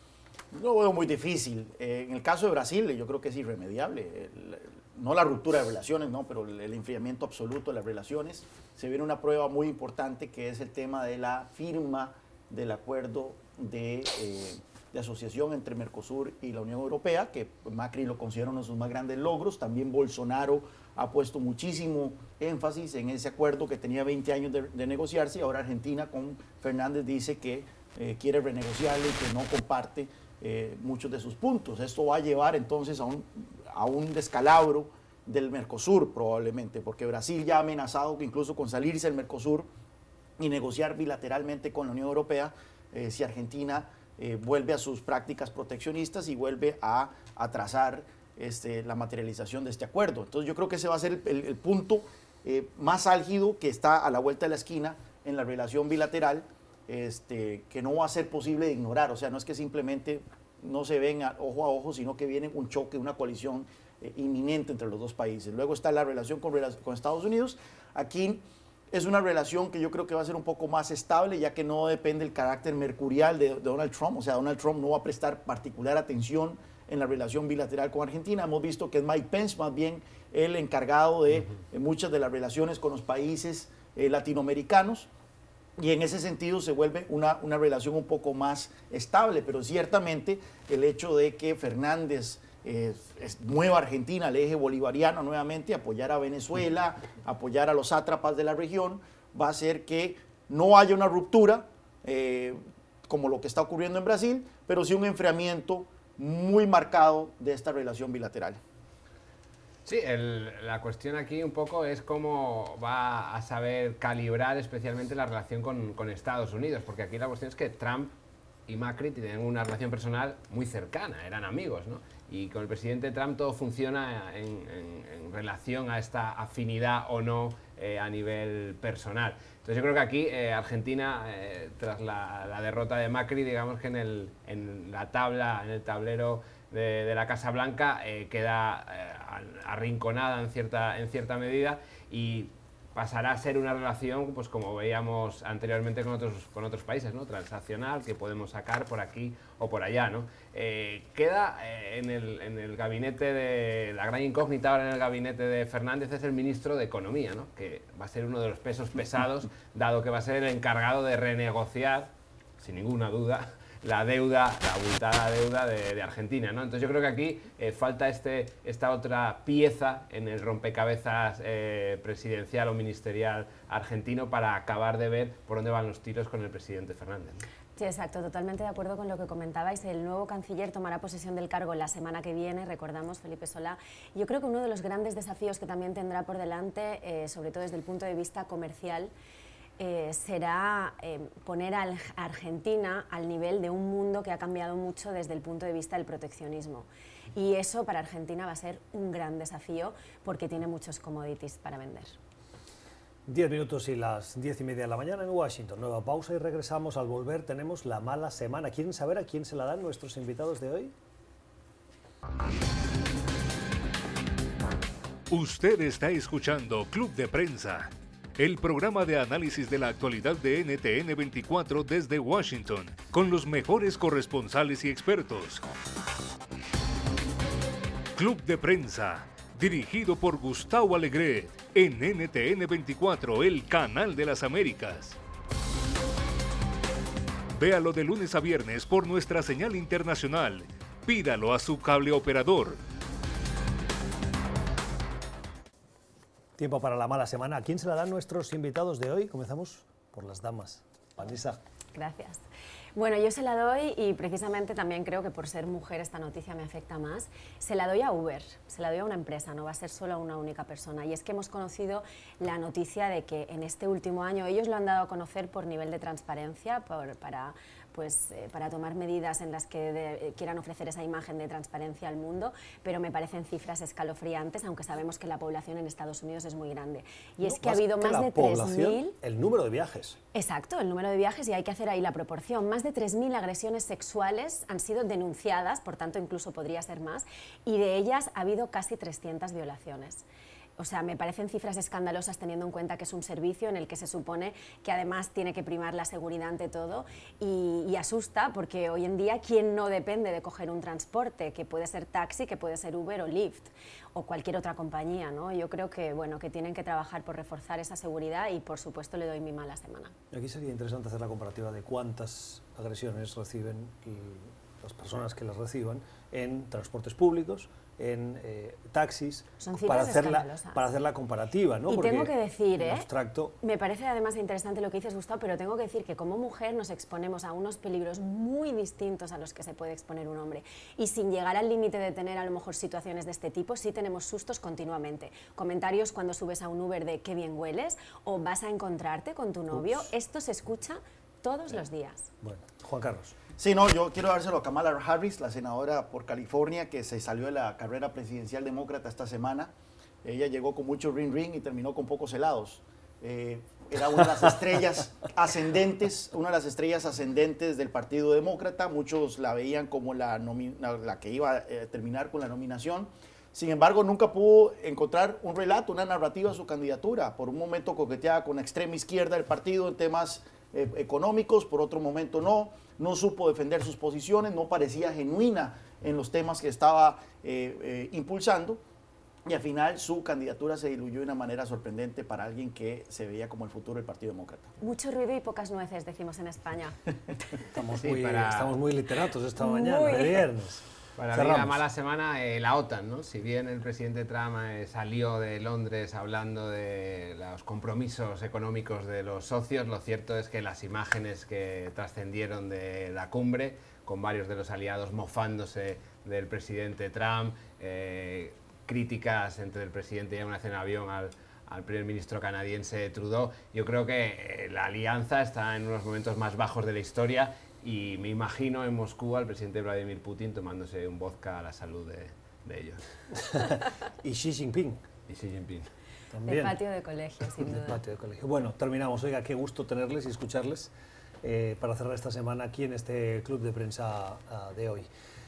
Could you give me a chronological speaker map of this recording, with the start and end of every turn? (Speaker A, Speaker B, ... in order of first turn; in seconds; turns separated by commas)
Speaker A: 0.5-39.7, Speaker A: 40.4-85.1, Speaker A: 85.8-108.6, Speaker B: 109.8-118.1, Speaker B: 118.7-177.4, Speaker C: 177.8-189.1, Speaker C: 189.8-202.2, Speaker D: 203.3-210.9, Speaker E: 215.3-225.6, Speaker E: 228.1-235.2, Speaker E: 237.6-242.8, Speaker D: 246.6-251.6, Speaker C: 251.9-252.4, Speaker C: 252.9-279.1, Speaker D: 277.4-280.2, Speaker C: 280.3-290.2, Speaker C: 290.8-310.1, Speaker D: 310.3-323.5, Speaker C: 319.6-320.8, Speaker C: 321.9-323.1, Speaker C: 323.6-342.3, Speaker D: 339.7-340.1, Speaker D: 342.4-343.3, Speaker A: 343.6-349.7, Speaker A: 350.2-378.8, Speaker A: 379.4-384.7, Speaker C: 384.8-387.0, Speaker D: 387.7-391.8, Speaker B: 387.9-388.7, Speaker C: 389.6-390.4, Speaker B: 391.2-423.0, Speaker D: 423.4-425.0, Speaker B: 425.3-425.9, Speaker D: 426.3-426.8, Speaker C: 426.4-428.0, Speaker D: 427.6-435.1